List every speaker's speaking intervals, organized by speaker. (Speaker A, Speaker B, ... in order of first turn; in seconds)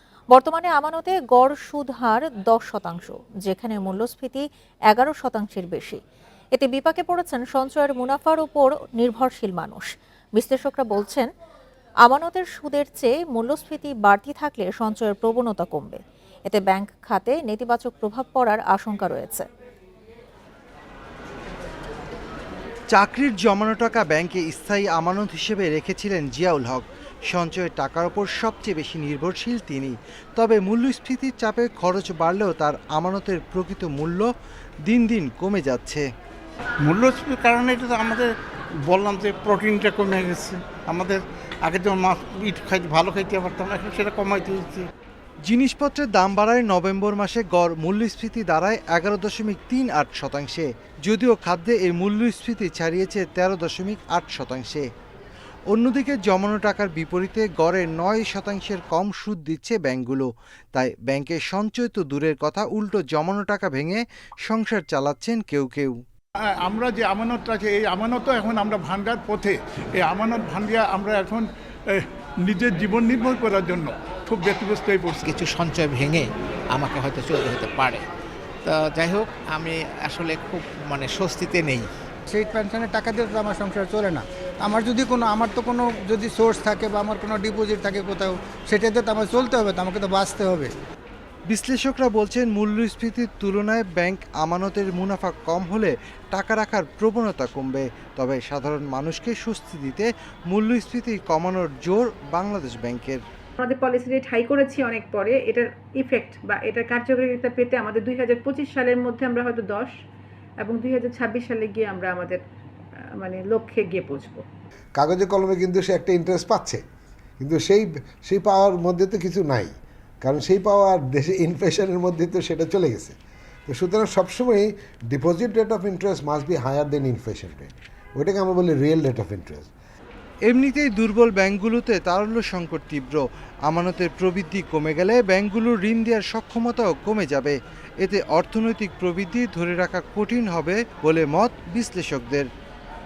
Speaker A: 0.3-6.0, 6.5-11.3, 12.0-19.4
Speaker B: 22.9-34.3, 34.9-36.0, 45.5-54.8, 55.7-65.9, 91.5-103.2, 130.5-142.5
Speaker C: 36.8-38.3, 38.8-44.9
Speaker D: 66.6-75.3
Speaker E: 75.2-78.0, 78.6-81.9
Speaker F: 82.3-90.7
Speaker G: 103.6-109.9, 110.6-112.4, 113.2-114.5
Speaker H: 115.0-116.8, 117.4-123.1, 123.7-129.7